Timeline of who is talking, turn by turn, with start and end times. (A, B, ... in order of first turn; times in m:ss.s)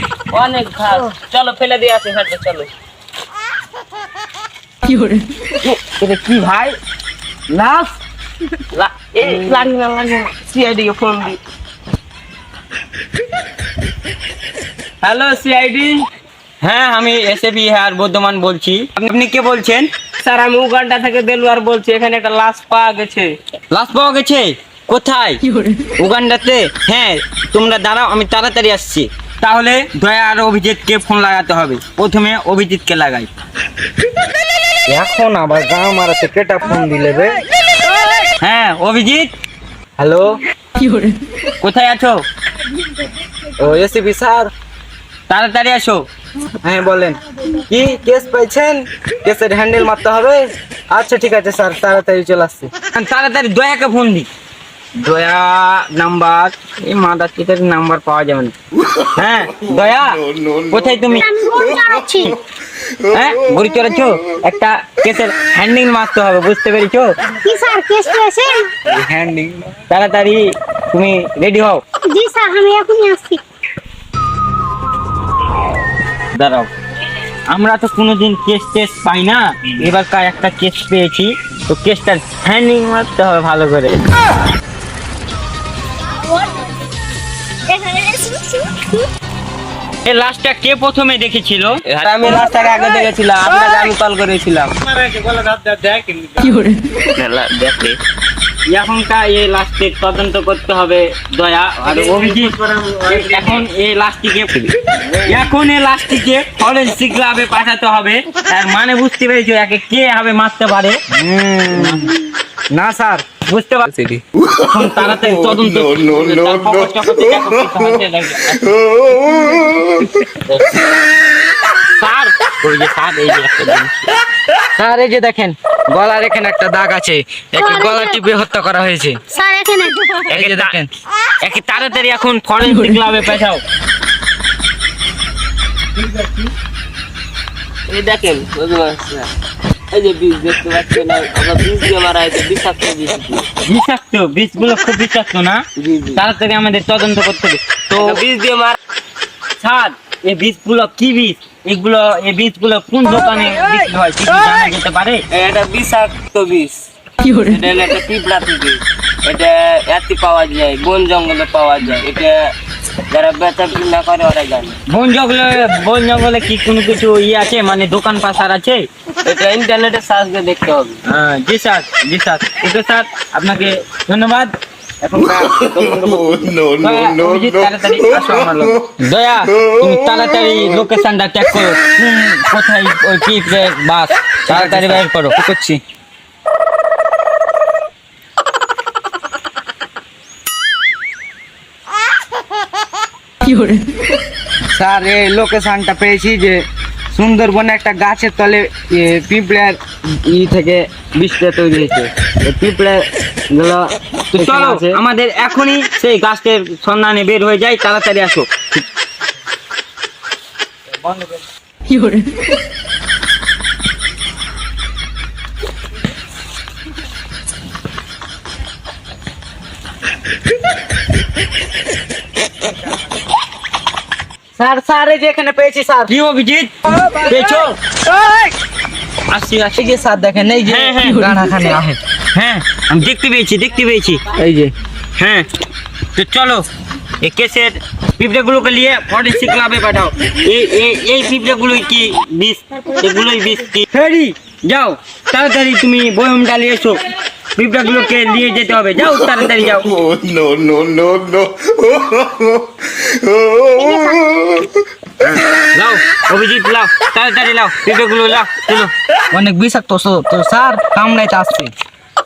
0:00.3-0:02.7 A
0:05.9-0:06.7 A
0:06.0-0:06.6 B
0:07.5-0:07.8 A
0:08.7-0:11.4 A
0:15.0-0:16.1 A
0:16.6-0:19.9 B
0:20.2-0:23.4 A
0:23.7-0:33.3 B
0:34.9-0:37.4 C
0:38.4-0:39.3 B
0:40.0-0:40.4 C
0:41.6-0:42.2 B
0:43.6-0:44.5 C
0:45.3-0:46.1 B
0:46.6-0:52.7 C
0:52.9-0:54.3 B
0:55.0-0:58.5 B
0:59.1-1:01.3 B
0:59.6-1:02.0 D
1:01.1-1:02.3 E
1:03.1-1:07.1 B
1:07.4-1:08.7 E
1:08.8-1:09.7 C
1:09.9-1:11.8 B
1:12.0-1:13.4 E
1:16.3-1:16.7 B
1:17.5-1:24.0 B
1:27.7-1:28.8 E
1:30.0-1:31.8 B
1:31.8-1:38.0 A
1:38.6-1:44.7 B
1:41.9-1:43.5 A
1:45.2-1:51.0 B
1:51.1-1:52.1 C
1:51.7-1:52.1 B
1:52.7-1:53.2 C
1:53.4-1:58.7 B
1:54.8-1:58.0 D
1:58.7-2:00.1 D
2:00.4-2:00.8 B
2:01.8-2:04.1 B
2:04.8-2:09.2 C
2:07.6-2:08.2 E
2:09.3-2:10.2 E
2:10.3-2:10.8 B
2:10.3-2:10.9 C
2:11.4-2:13.6 B
2:17.9-2:19.3 A
2:19.9-2:23.5 A
2:23.6-2:25.6 B
2:25.8-2:26.2 A
2:26.1-2:28.2 B
2:27.9-2:28.8 A
2:29.6-2:35.2 B
2:35.3-2:42.5 A
2:43.1-2:44.8 A
2:44.9-2:48.9 B
2:49.2-2:51.0 A
2:51.0-3:05.4 B
2:55.2-2:58.8 D
3:04.5-3:05.8 C
3:14.7-3:25.0 C
3:24.3-3:28.8 B
3:30.9-3:31.4 C
3:44.6-3:46.1 C
3:46.1-3:47.8 B
3:49.3-3:49.9 B
3:49.8-3:52.0 C
3:50.6-3:51.3 B
3:52.3-3:54.2 B
3:54.4-3:54.7 C
3:55.2-3:55.5 B
3:56.1-3:56.7 B
3:57.2-4:07.0 B
4:07.6-4:10.0 B
4:09.8-4:14.7 D
4:15.2-4:18.9 B
4:19.3-4:21.7 C